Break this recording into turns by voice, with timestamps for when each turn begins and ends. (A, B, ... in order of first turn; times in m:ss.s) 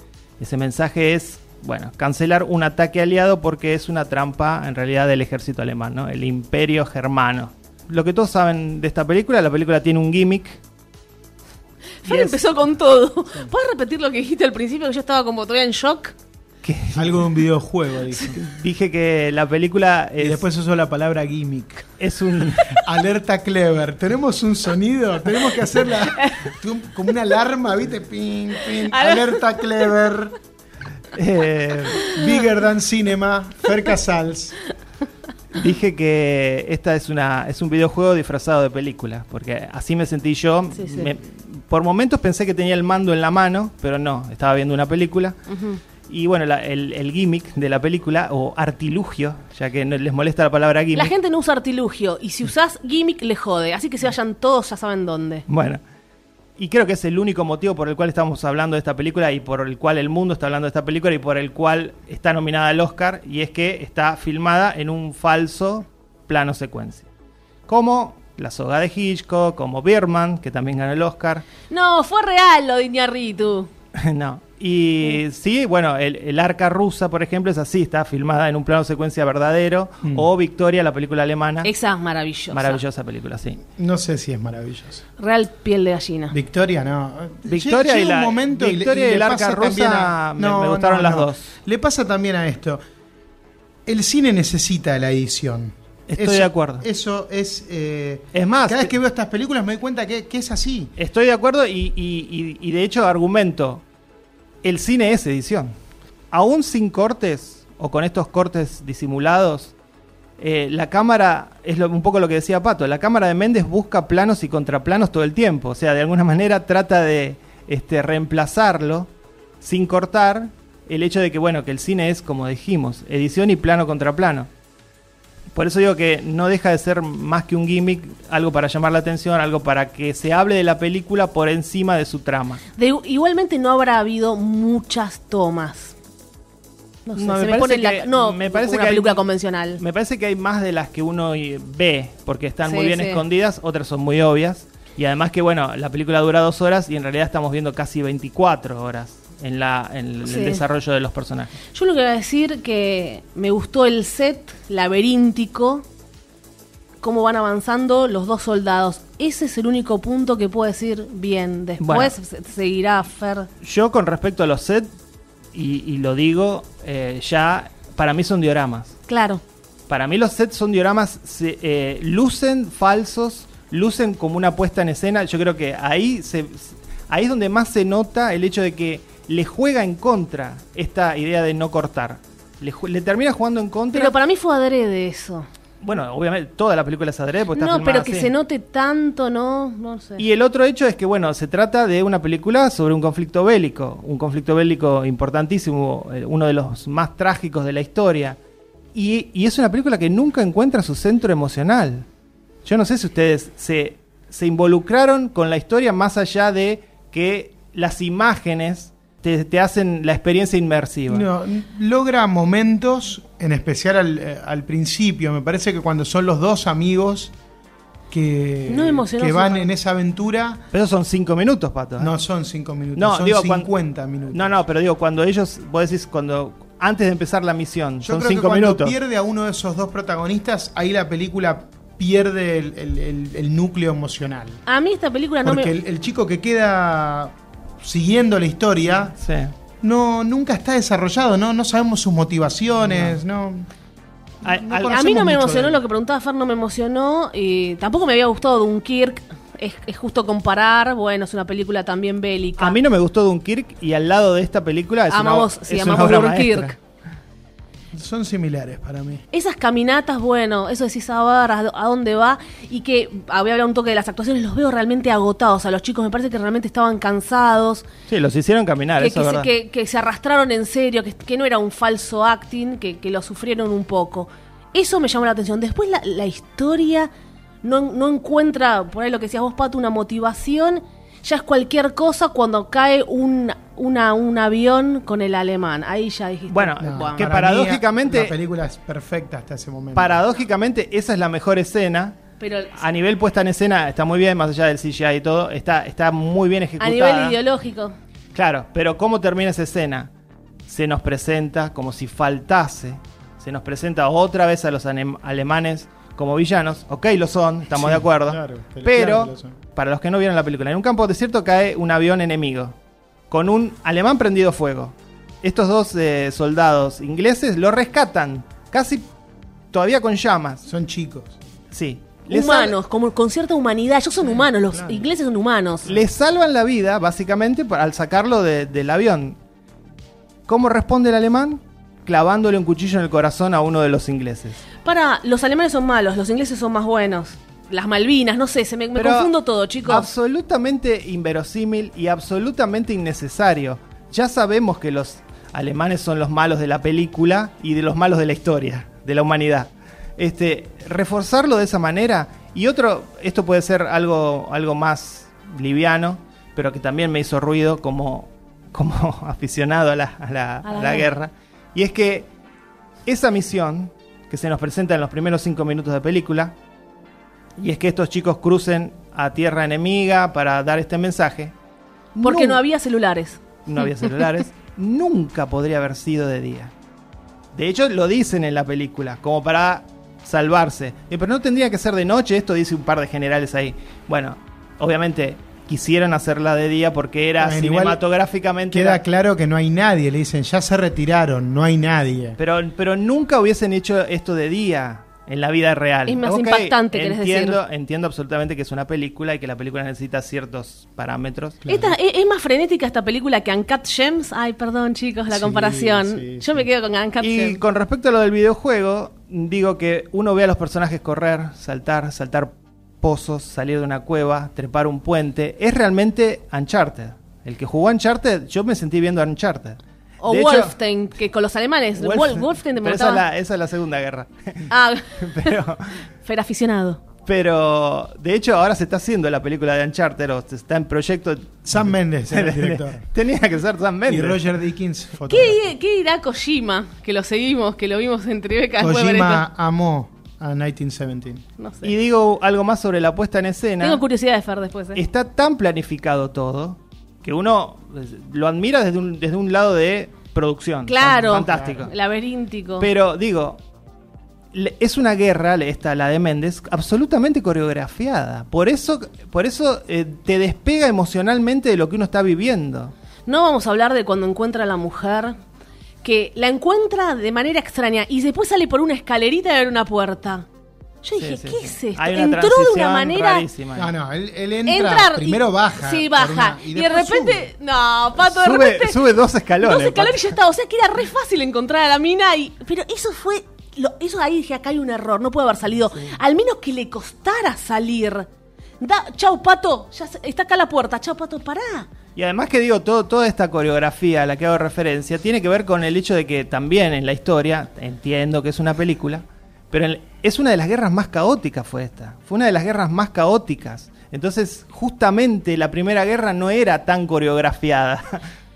0:00.4-0:10.6 A
0:12.0-0:16.1 B
0:12.1-0:12.4 A
0:16.6-0:17.3 A
0:16.9-0:18.4 C
0:18.3-0:20.4 A
0:20.2-0:21.9 C
0:22.0-0:22.8 A
0:22.7-0:30.4 C
0:26.1-0:26.4 B
0:28.8-0:29.6 B
0:31.1-0:32.1 A
0:32.1-0:34.6 C
0:35.5-0:45.4 A
0:40.7-0:41.1 B
0:45.5-0:45.8 B
0:46.1-0:51.1 A
0:50.9-0:55.4 B
0:55.5-0:55.8 A
0:56.6-1:07.0 A
1:07.7-1:11.4 A
1:11.7-1:13.7 B
1:13.9-1:21.7 A
1:21.6-1:22.8 B
1:22.5-1:23.6 A
1:23.7-1:25.0 C
1:25.2-1:26.3 B
1:26.3-1:32.8 C
1:27.5-1:31.5 A
1:33.8-1:40.9 C
1:36.1-1:36.8 A
1:38.3-1:38.9 A
1:41.0-1:43.8 A
1:44.6-1:45.7 A
1:46.3-1:49.7 A
1:50.4-1:59.1 A
1:59.6-2:04.5 A
2:05.5-2:12.6 A
2:12.8-2:15.9 B
2:17.0-2:19.8 B
2:17.2-2:19.2 A
2:19.8-2:31.6 A
2:22.6-2:23.2 B
2:30.2-2:30.6 B
2:31.7-2:35.8 B
2:37.0-2:43.5 B
2:41.8-2:42.1 A
2:43.6-2:44.9 A
2:45.5-2:49.0 A
2:49.1-2:49.4 B
2:49.9-3:04.1 A
3:03.9-3:05.5 B
3:05.8-3:08.3 A
3:07.5-3:10.2 B
3:10.2-3:18.4 A
3:18.9-3:22.0 A
3:22.6-3:31.2 A
3:31.1-3:37.3 C
3:38.1-3:40.6 C
3:38.7-3:39.7 B
3:40.7-3:42.1 A
3:42.0-3:44.6 C
3:43.0-3:43.7 A
3:44.3-3:48.9 A
3:48.0-3:54.6 C
3:54.6-3:55.7 B
3:55.4-3:59.2 C
3:59.2-3:59.5 A
3:59.8-4:03.7 C
4:02.8-4:03.2 A
4:04.4-4:05.0 A
4:04.4-4:05.8 C
4:04.9-4:12.8 B
4:12.6-4:16.8 A
4:15.1-4:16.7 B
4:17.9-4:19.2 C
4:19.3-4:27.8 B
4:28.1-4:29.5 A
4:29.0-4:37.1 B
4:37.6-4:47.3 B
4:46.5-4:48.3 A
4:46.8-4:50.2 C
4:49.9-4:52.2 A
4:52.4-4:52.8 B
4:52.7-4:57.4 A
4:56.8-4:57.9 B
4:58.3-5:00.1 A
5:00.7-5:12.7 A
5:07.7-5:09.6 C
5:13.3-5:19.0 A
5:19.7-5:20.6 A
5:20.6-5:21.4 C
5:21.7-5:22.8 A
5:22.3-5:25.9 B
5:24.2-5:25.1 C
5:25.8-5:29.4 A
5:30.5-5:34.6 A
5:34.8-5:40.1 B
5:38.9-5:39.3 A
5:39.8-6:02.3 A
6:00.6-6:01.1 B
6:03.0-6:06.5 A
6:07.6-6:11.5 A
6:12.2-6:13.4 B
6:12.2-6:12.6 A
6:13.6-6:16.7 A
6:17.5-6:29.0 A
6:27.4-6:28.0 C
6:28.7-6:32.4 C
6:32.4-6:41.6 A
6:36.1-6:37.6 B
6:41.6-6:42.0 C
6:41.7-6:47.6 B
6:45.3-6:46.6 C
6:47.2-7:00.7 A
7:00.2-7:03.2 B
7:02.0-7:06.0 A
7:04.7-7:05.5 B
7:06.2-7:07.0 B
7:07.2-7:14.4 A
7:11.6-7:13.0 C
7:14.1-7:15.7 C
7:15.3-7:19.4 B
7:18.8-7:21.4 C
7:21.6-7:21.9 B
7:21.8-7:24.0 A
7:23.8-7:25.0 B
7:24.9-7:31.9 A
7:30.8-7:32.9 B
7:31.1-7:31.8 C
7:32.8-7:33.6 A
7:34.5-7:42.9 A
7:43.2-7:45.4 B
7:46.0-7:50.4 B
7:51.0-7:53.4 B
7:51.2-7:53.9 A
7:53.8-7:57.5 C
7:54.6-7:59.0 B
7:58.2-8:00.4 A
7:59.6-8:08.3 B
8:08.8-8:11.9 B
8:12.2-8:28.2 A